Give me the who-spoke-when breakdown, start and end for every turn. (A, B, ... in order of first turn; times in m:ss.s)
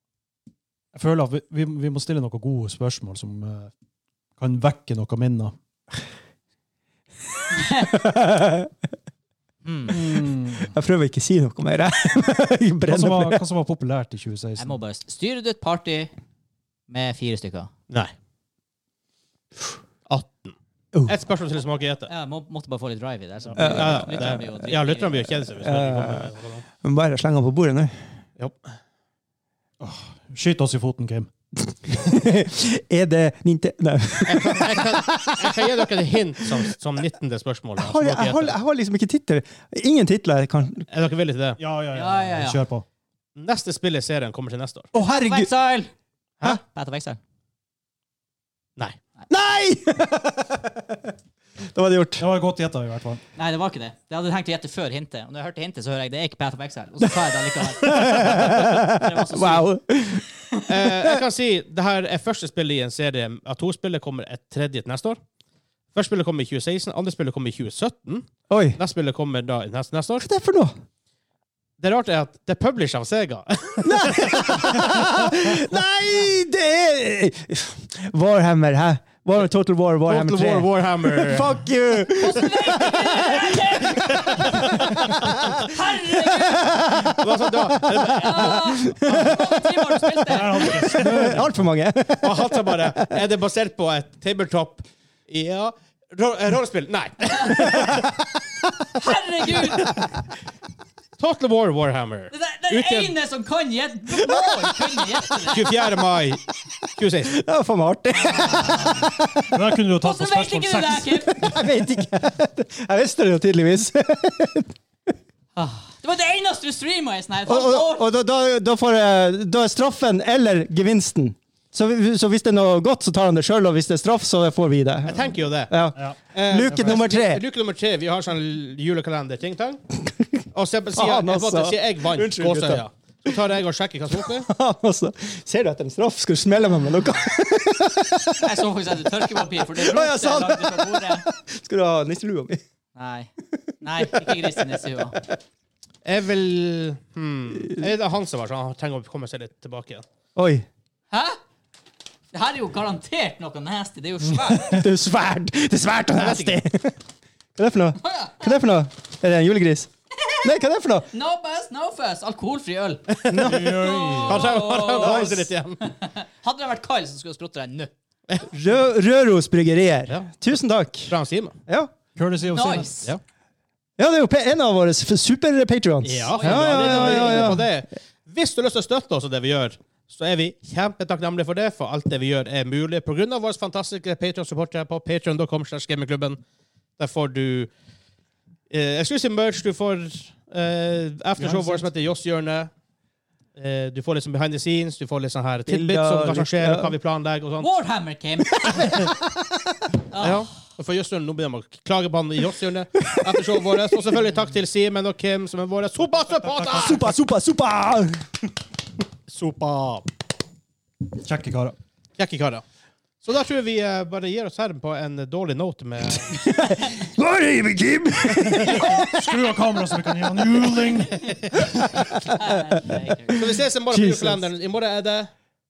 0:00.9-0:03.7 A
0:04.4-0:05.6 A
0:07.5-0:07.9 B
0:07.9-0:08.7 C
0:09.6-0:10.0 B
0:09.9-0:10.7 A
0:10.7-0:13.4 C
0:12.9-0:14.8 A
0:14.6-0:16.1 B
0:16.9-0:17.7 B
0:20.1-0:20.5 D
0:21.1-0:22.1 D
0:22.1-0:25.2 B
0:23.6-0:24.4 C
0:23.6-0:26.6 D
0:25.5-0:28.0 C
0:28.4-0:28.6 D
0:29.8-0:31.3 A
0:31.6-0:35.8 C
0:34.3-0:38.5 D
0:36.4-0:36.7 C
0:37.8-0:40.9 C
0:40.9-0:41.6 D
0:41.6-0:42.8 A
0:41.9-0:42.6 B
0:43.4-0:44.9 D
0:44.9-0:45.5 C
0:45.2-0:45.9 B
0:46.4-0:47.2 B
0:49.3-0:52.3 C
0:52.2-0:53.2 A
0:53.4-0:59.7 B
0:57.6-1:01.2 C
1:00.6-1:05.2 D
1:05.9-1:10.2 D
1:08.5-1:08.8 C
1:10.2-1:10.7 C
1:11.8-1:14.9 D
1:13.8-1:33.2 C
1:20.0-1:21.7 D
1:22.1-1:26.8 B
1:24.1-1:25.4 D
1:27.1-1:28.7 D
1:28.0-1:31.0 B
1:30.3-1:31.6 A
1:32.2-1:38.1 D
1:37.4-1:38.1 C
1:39.0-1:39.9 B
1:39.5-1:40.0 C
1:41.2-1:43.1 D
1:42.3-1:45.7 B
1:44.2-1:44.8 C
1:45.5-1:46.4 D
1:47.0-1:47.4 D
1:47.2-1:49.8 C
1:48.3-1:49.1 B
1:49.5-1:51.4 A
1:50.0-1:51.5 B
1:51.3-1:54.7 C
1:55.5-1:58.1 B
1:57.5-2:07.4 C
2:05.0-2:05.8 D
2:05.9-2:07.0 A
2:06.3-2:09.8 D
2:10.0-2:10.4 C
2:10.5-2:14.5 D
2:10.9-2:13.3 C
2:14.2-2:18.6 C
2:18.4-2:21.2 B
2:19.2-2:22.6 C
2:22.9-2:23.3 B
2:23.5-2:25.3 C
2:23.8-2:25.2 B
2:26.0-2:30.0 D
2:30.3-2:30.6 C
2:31.1-2:31.4 B
2:32.3-2:34.8 B
2:34.5-2:37.0 C
2:36.2-2:36.6 D
2:37.5-2:39.9 C
2:38.0-2:38.5 B
2:40.4-2:41.1 C
2:41.1-2:47.9 B
2:43.3-2:45.9 D
2:43.3-2:43.6 C
2:43.4-2:44.4 A
2:48.5-2:51.1 C
2:51.1-2:51.6 D
2:51.7-2:51.9 C
2:52.2-2:53.1 A
2:52.5-2:53.1 B
2:54.0-2:57.8 C
2:56.0-3:06.4 D
2:56.3-2:57.6 B
3:07.0-3:07.7 D
3:08.7-3:12.7 D
3:11.4-3:11.9 A
3:13.6-3:17.7 D
3:15.7-3:16.9 C
3:17.6-3:19.1 B
3:18.7-3:19.4 C
3:20.1-3:20.5 B
3:20.2-3:27.0 D
3:23.1-3:24.2 C
3:26.3-3:27.1 A
3:26.7-3:28.2 C
3:29.3-3:30.0 D
3:31.2-3:31.8 A
3:32.2-3:32.6 D
3:33.2-3:36.5 D
3:36.2-3:39.5 C
3:38.5-3:41.6 A
3:41.6-3:42.3 C
3:42.0-3:43.5 B
3:43.3-3:45.3 D
3:43.9-3:44.4 C